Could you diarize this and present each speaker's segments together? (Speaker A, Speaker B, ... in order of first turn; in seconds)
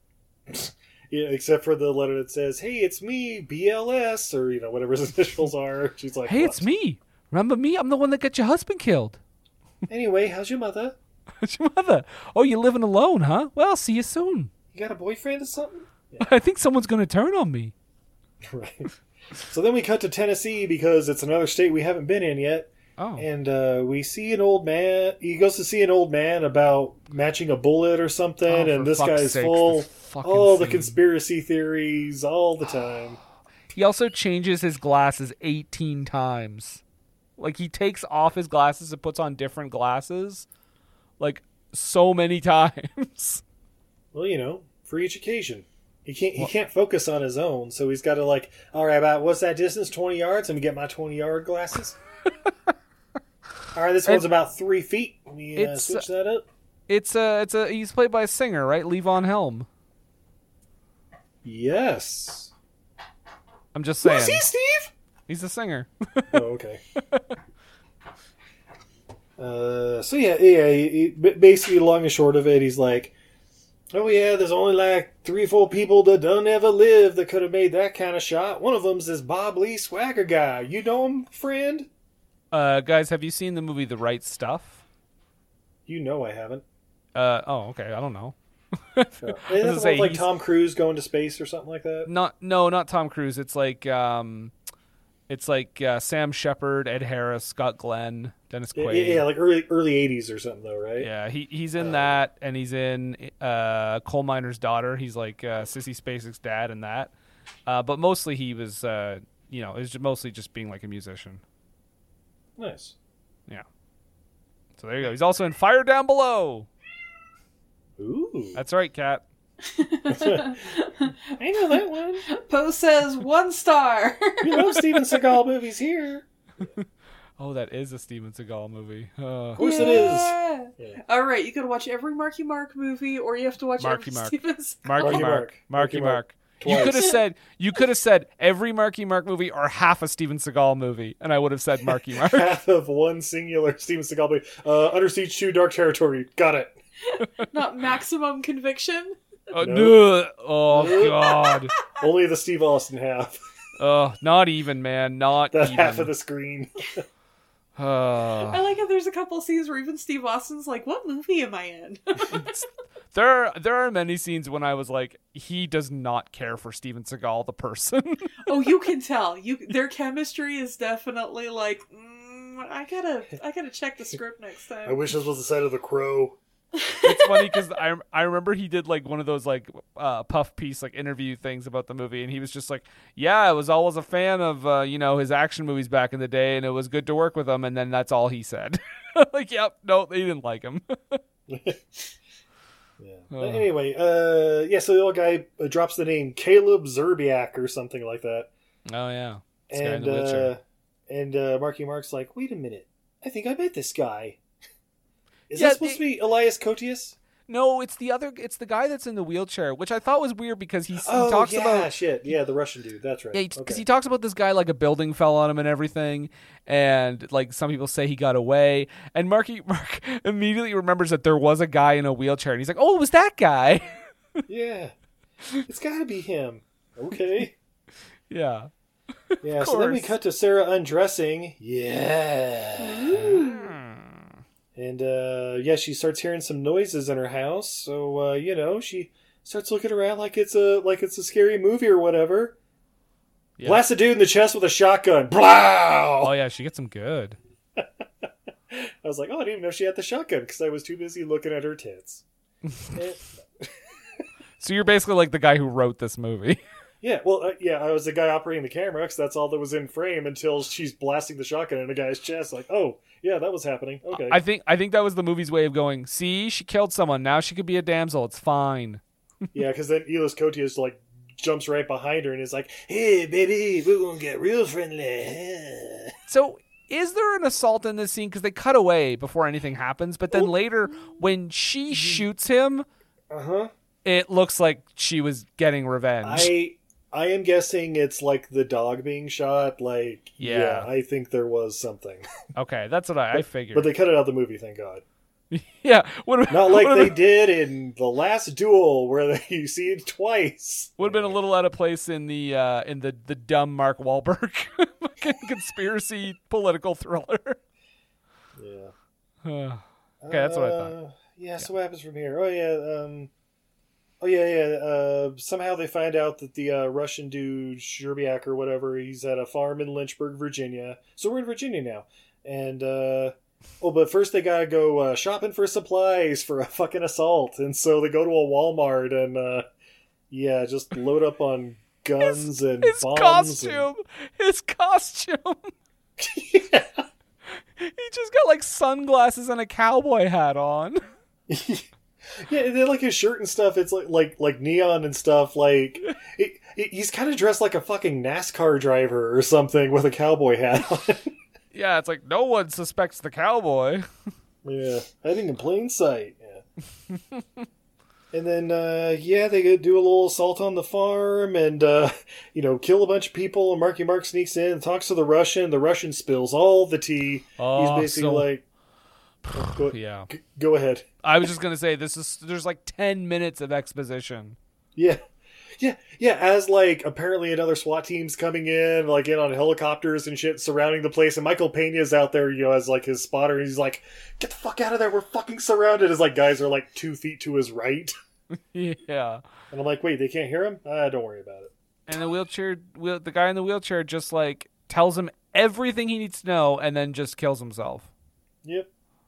Speaker A: 0.5-6.6, 9.9-11.0, 14.7-16.3, 18.4-18.9, 19.4-33.2, 44.1-52.0, 53.7-56.5, 61.4-62.5, 64.0-64.9, 66.3-66.8, 69.4-73.1, 73.9-81.9, 85.9-86.6, 89.2-92.1, 98.8-101.1, 101.8-102.2, 112.6-113.0, 118.0-118.6, 120.1-120.5, 121.3-122.2, 124.4-126.3, 129.6-131.0, 135.0-137.2, 142.1-146.8, 149.6-150.0, 150.7-151.3, 152.0-153.4, 155.5-157.0, 174.9-176.4, 191.5-192.0, 193.0-198.5, 199.7-204.4, 205.5-207.2, 211.0-213.8, 224.5-224.9, 225.7-227.5, 229.4-233.2, 234.8-242.6, 243.6-246.3, 247.8-252.2, 252.9-253.7, 257.0-264.4, 269.5-276.1, 281.9-282.3, 283.3-283.7, 286.2-292.3, 293.4-295.0, 296.5-301.4, 308.6-308.9, 310.2-313.3, 314.2-329.7, 330.3-333.9, 336.2-337.0, 341.5-351.3, 354.6-356.6, 358.3-368.6, 369.5-371.1, 375.0-375.2, 375.8-388.1, 389.7-391.7, 398.6-398.9
Speaker B: 6.3-9.2, 11.4-14.5, 16.2-17.7, 23.0-23.3, 28.5-31.0, 33.7-36.8, 37.4-40.5, 41.2-43.4, 55.5-56.1, 56.9-59.7, 63.7-64.5, 65.3-66.4, 82.5-84.8, 87.2-88.3, 88.9-90.3, 92.1-94.5, 95.3-99.3, 101.0-107.1, 107.7-111.4, 114.8-116.7, 118.5-119.3, 127.4-129.9, 133.8-142.6, 149.5-151.7, 153.8-156.1, 157.8-158.6, 162.3-168.4, 177.0-191.2, 193.3-193.7, 198.9-200.5, 205.6-206.0, 207.5-211.9, 213.3-224.0, 228.3-228.7, 229.3-230.1, 233.2-234.3, 243.6-243.8, 246.2-247.4, 254.6-256.6, 264.1-269.0, 276.3-282.9, 284.1-286.5, 290.4-290.9, 292.6-293.9, 295.5-297.2, 301.0-307.6, 309.4-310.9, 332.2-335.7, 337.8-341.0, 351.7-354.1, 367.6-368.5, 369.5-370.3, 371.2-374.6, 388.5-389.4, 392.1-398.1
Speaker C: 119.7-121.8, 122.3-124.8, 129.6-135.2, 147.2-149.2, 158.4-162.4, 168.5-175.0, 176.8-177.6, 232.8-233.7